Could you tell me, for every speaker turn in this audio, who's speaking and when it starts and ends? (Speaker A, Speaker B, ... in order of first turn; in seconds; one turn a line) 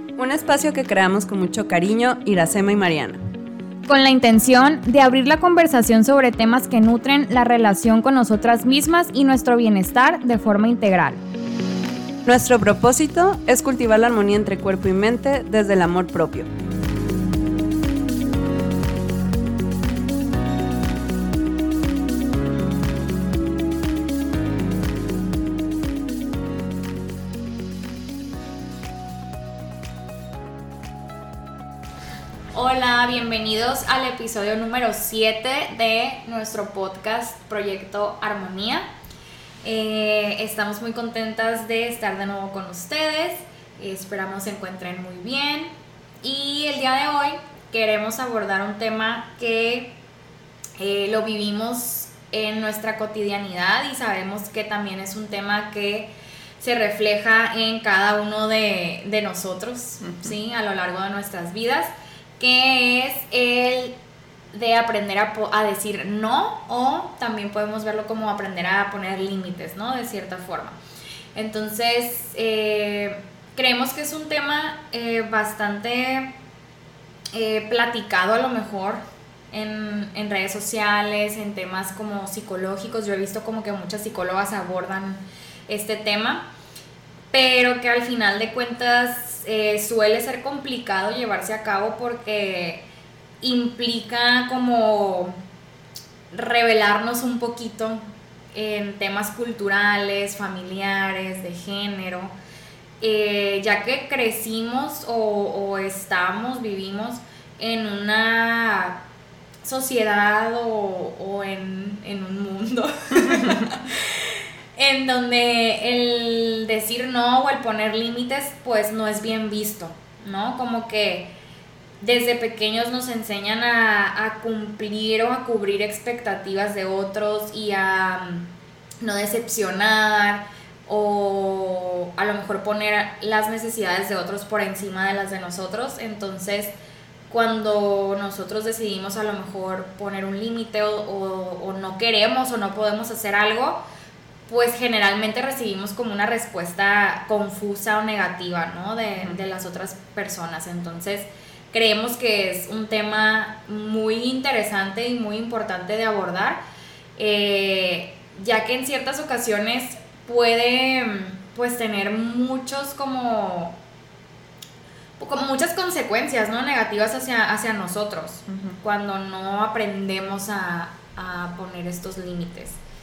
Speaker A: 0.2-3.2
Speaker B: 3.9-11.2
Speaker A: 12.2-16.5
Speaker B: 32.5-38.9
Speaker B: 39.6-45.7
Speaker B: 46.2-49.9
Speaker B: 50.8-56.1
Speaker B: 56.6-63.9
Speaker A: 60.0-60.3
Speaker B: 64.5-70.8
Speaker B: 71.3-76.3
Speaker B: 77.3-86.4
Speaker B: 87.3-92.8
Speaker B: 93.4-95.3
Speaker B: 96.3-98.0
Speaker B: 98.5-102.3
Speaker B: 103.0-109.0
Speaker B: 109.6-121.3
Speaker A: 113.1-113.7
Speaker B: 122.0-128.5
Speaker B: 129.0-136.7
Speaker B: 137.3-143.8
Speaker B: 144.5-156.6
Speaker B: 157.2-163.8
Speaker B: 165.2-172.8
Speaker A: 168.5-168.8